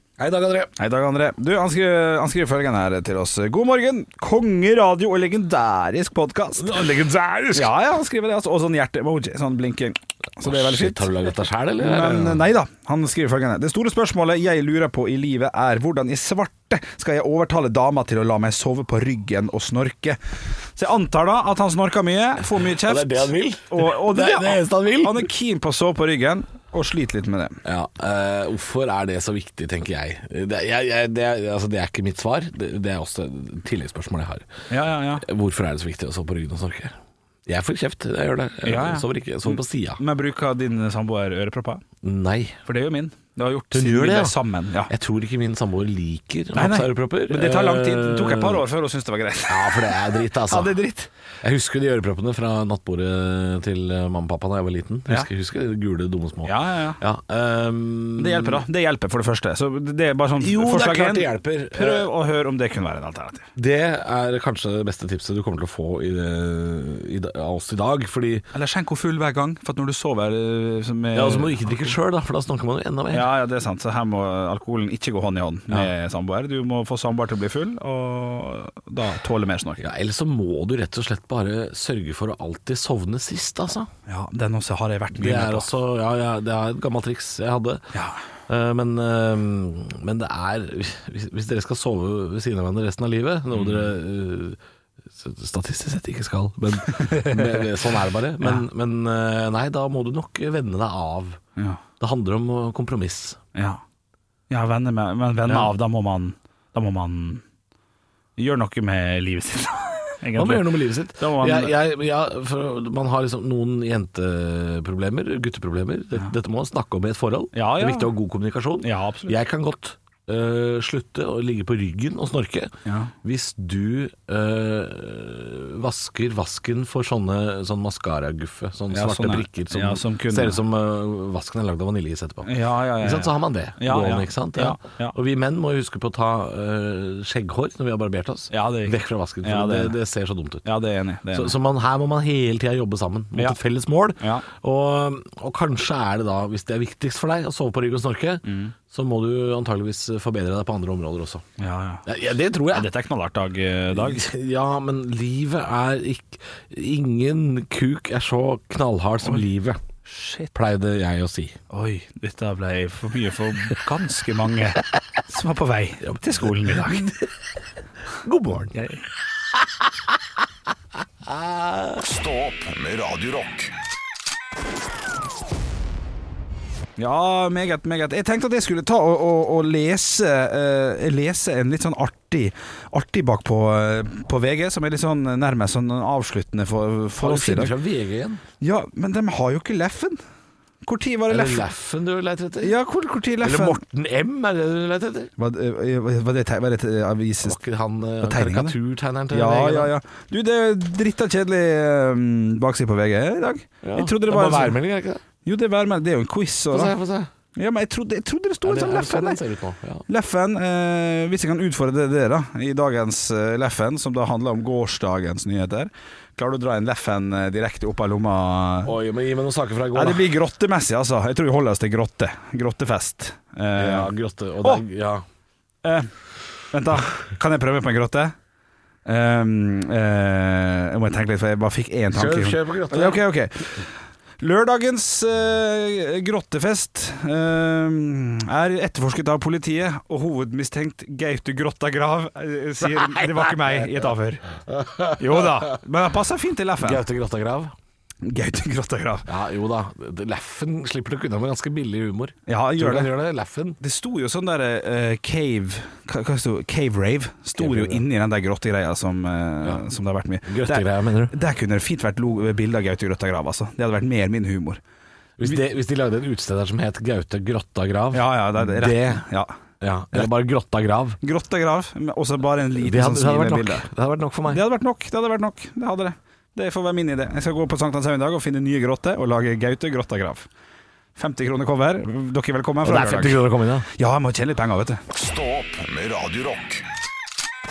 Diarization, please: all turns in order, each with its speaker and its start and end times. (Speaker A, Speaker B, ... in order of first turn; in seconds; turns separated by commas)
Speaker A: 0.2-0.7, Speaker B: 0.8-6.7, Speaker A: 6.6-7.7, Speaker B: 7.5-11.1, Speaker A: 10.4-12.4, Speaker B: 11.8-20.2, Speaker B: 20.7-27.6, Speaker A: 22.6-25.3, Speaker A: 27.6-34.5, Speaker B: 34.7-35.2, Speaker A: 35.2-36.9, Speaker A: 37.5-40.0, Speaker B: 38.6-41.8, Speaker A: 42.0-42.6, Speaker B: 42.6-44.9, Speaker A: 43.7-48.6, Speaker B: 46.5-51.1, Speaker A: 49.5-50.8, Speaker A: 51.4-58.6, Speaker B: 56.4-57.0, Speaker B: 58.1-63.5, Speaker A: 60.4-62.1, Speaker A: 63.5-68.5, Speaker B: 68.5-71.9, Speaker A: 71.1-73.3, Speaker B: 73.1-79.8, Speaker A: 79.8-83.9, Speaker B: 84.1-85.7, Speaker A: 85.2-87.8, Speaker B: 87.9-88.2, Speaker A: 88.5-101.4, Speaker B: 93.5-93.9, Speaker B: 96.8-97.7, Speaker B: 98.4-98.6, Speaker A: 102.0-103.4, Speaker B: 103.5-103.8, Speaker B: 104.5-107.4, Speaker A: 105.5-105.7, Speaker B: 108.4-111.8, Speaker A: 110.3-140.7, Speaker B: 117.5-118.1, Speaker B: 118.8-119.3, Speaker B: 122.8-123.1, Speaker B: 128.9-130.6, Speaker B: 132.4-135.1, Speaker B: 138.5-140.0, Speaker B: 140.6-141.6, Speaker A: 141.3-151.4, Speaker B: 144.2-144.4, Speaker B: 148.4-148.7, Speaker B: 151.6-152.0, Speaker A: 152.1-152.9, Speaker B: 152.7-154.3, Speaker A: 153.9-159.8, Speaker B: 160.1-160.5, Speaker A: 160.5-161.6, Speaker B: 161.7-167.2, Speaker A: 166.0-167.3, Speaker A: 168.1-168.8, Speaker B: 168.7-169.0, Speaker A: 169.6-170.1, Speaker A: 171.2-172.0, Speaker C: 171.9-173.7, Speaker B: 177.0-187.8, Speaker A: 187.2-188.4, Speaker B: 188.6-190.2, Speaker B: 190.8-191.7, Speaker A: 191.3-192.8, Speaker B: 192.6-193.8, Speaker A: 193.4-195.3, Speaker B: 195.4-197.6, Speaker A: 197.4-199.9, Speaker B: 198.2-198.7, Speaker B: 199.3-204.8, Speaker A: 203.8-205.2, Speaker B: 205.4-206.9, Speaker A: 206.7-207.3, Speaker B: 207.5-209.4, Speaker A: 208.6-210.0, Speaker B: 210.1-218.9, Speaker A: 218.8-220.3, Speaker B: 219.9-224.8, Speaker A: 223.8-225.2, Speaker B: 225.8-226.1, Speaker B: 226.7-228.3, Speaker B: 229.1-244.4, Speaker A: 232.1-233.2, Speaker A: 242.8-243.9, Speaker A: 244.7-245.8, Speaker B: 245.2-247.0, Speaker A: 246.8-247.7, Speaker B: 248.2-249.3, Speaker A: 249.3-253.8, Speaker B: 252.5-253.1, Speaker B: 253.8-264.8, Speaker A: 257.6-258.0, Speaker A: 260.5-261.3, Speaker A: 265.4-269.2, Speaker B: 268.1-269.6, Speaker A: 269.8-271.2, Speaker B: 271.2-273.9, Speaker A: 272.8-274.6, Speaker B: 274.5-280.5, Speaker B: 281.1-285.0, Speaker A: 282.8-283.9, Speaker C: 285.1-286.8